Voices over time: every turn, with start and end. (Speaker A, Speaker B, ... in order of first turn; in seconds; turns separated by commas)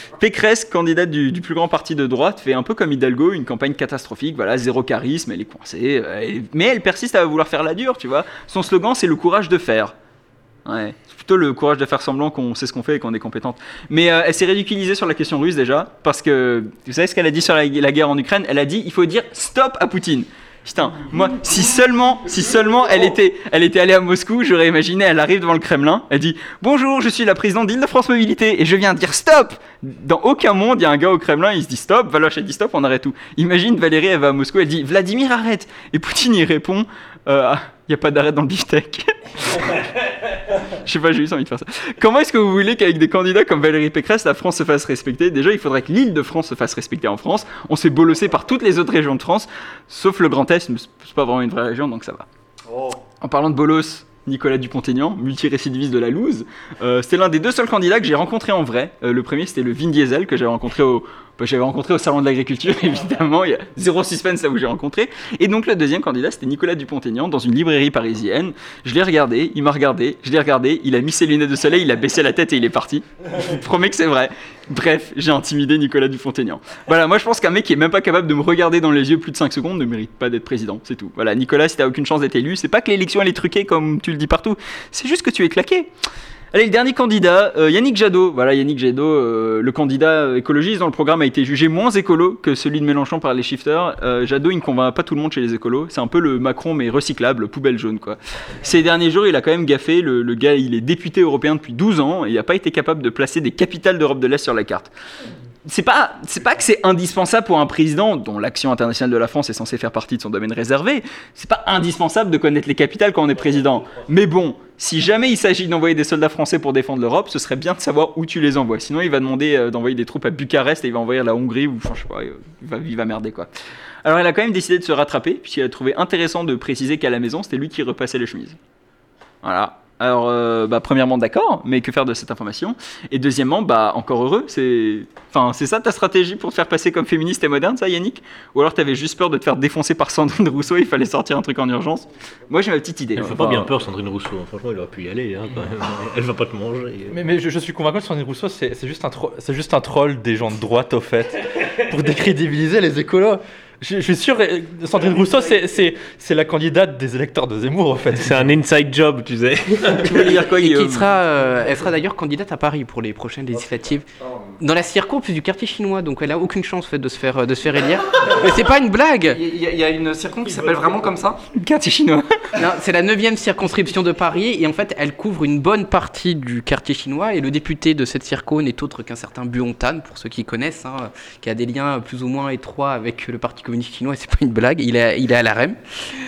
Speaker A: 0.2-9.9, Speaker A: 10.7-39.7, Speaker A: 40.8-52.3, Speaker B: 52.7-53.0, Speaker A: 53.2-85.9, Speaker A: 86.5-104.9, Speaker A: 105.7-123.5, Speaker A: 124.0-128.6, Speaker A: 129.4-143.7, Speaker C: 143.2-147.1, Speaker D: 147.1-158.4, Speaker C: 158.2-160.2, Speaker A: 159.9-161.1, Speaker E: 160.4-164.1, Speaker B: 164.2-164.5, Speaker E: 164.6-169.4, Speaker B: 169.3-171.4, Speaker A: 171.5-172.2, Speaker E: 172.5-185.8